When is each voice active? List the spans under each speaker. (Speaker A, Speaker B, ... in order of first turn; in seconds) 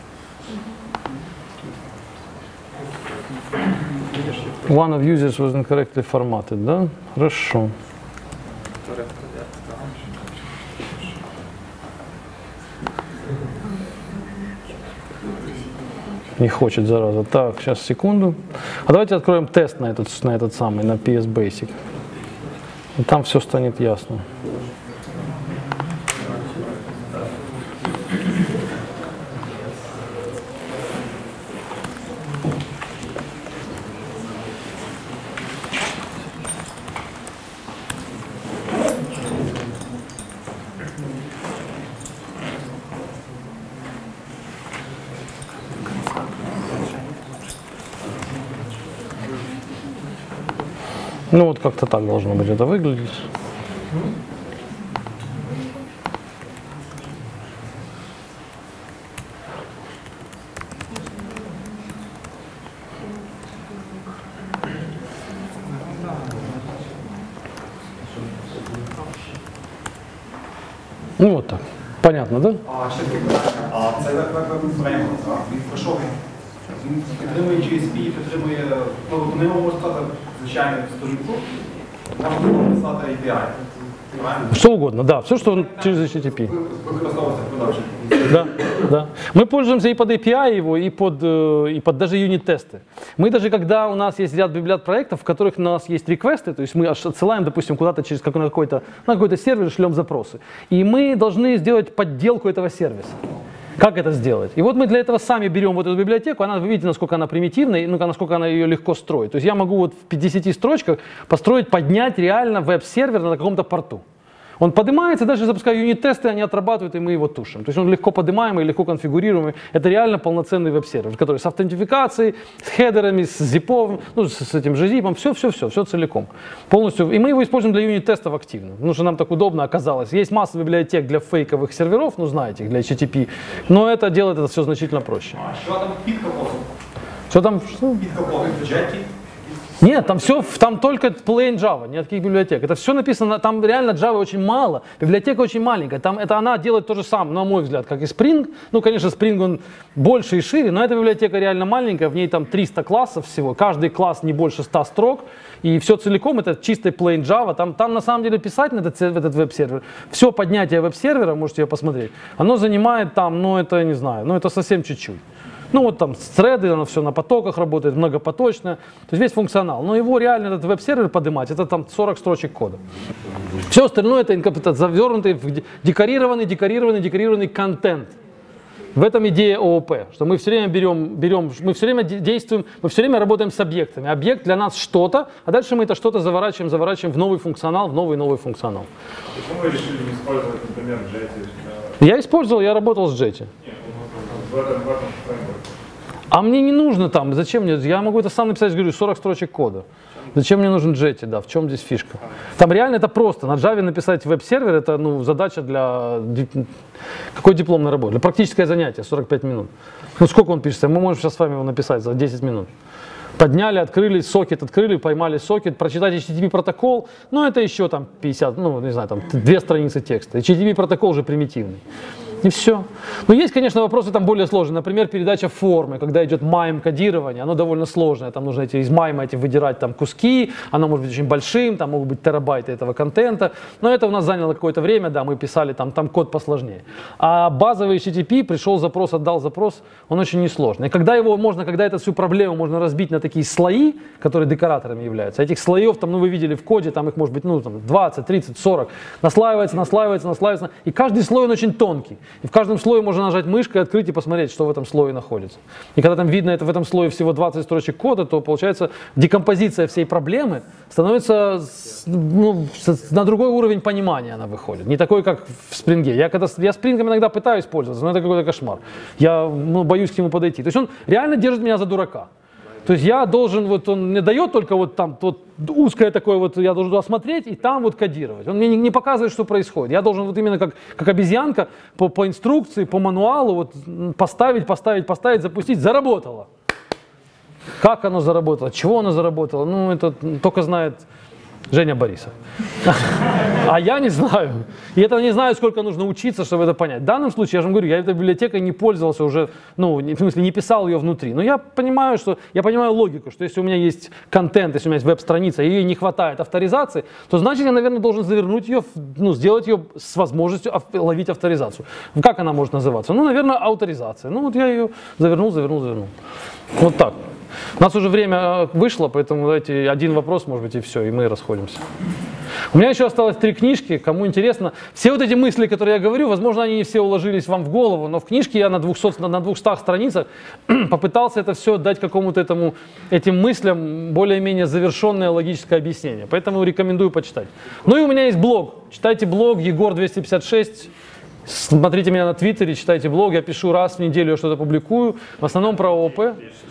Speaker A: 4.7-7.7, 16.4-21.8, 23.0-24.2, 51.3-53.2, 71.2-72.6, 84.5-86.5, 88.2-103.2, 103.8-114.0, 114.6-135.4, 137.3-138.0, 139.8-165.2, 165.7-172.8, 173.7-178.1, 178.9-188.9, 192.0-193.5, 196.3-206.7, 207.3-212.7, 213.4-221.8, 222.4-272.3, 272.9-286.5, 287.8-291.0, 291.7-292.3, 292.8-316.1, 316.8-317.2, 317.8-321.8, 322.7-340.9, 341.4-346.4
Speaker B: 72.6-76.2, 76.8-81.5, 82.1-84.6, 86.4-88.3, 135.4-136.7, 138.0-139.1
Speaker C: 189.3-191.9, 193.6-195.7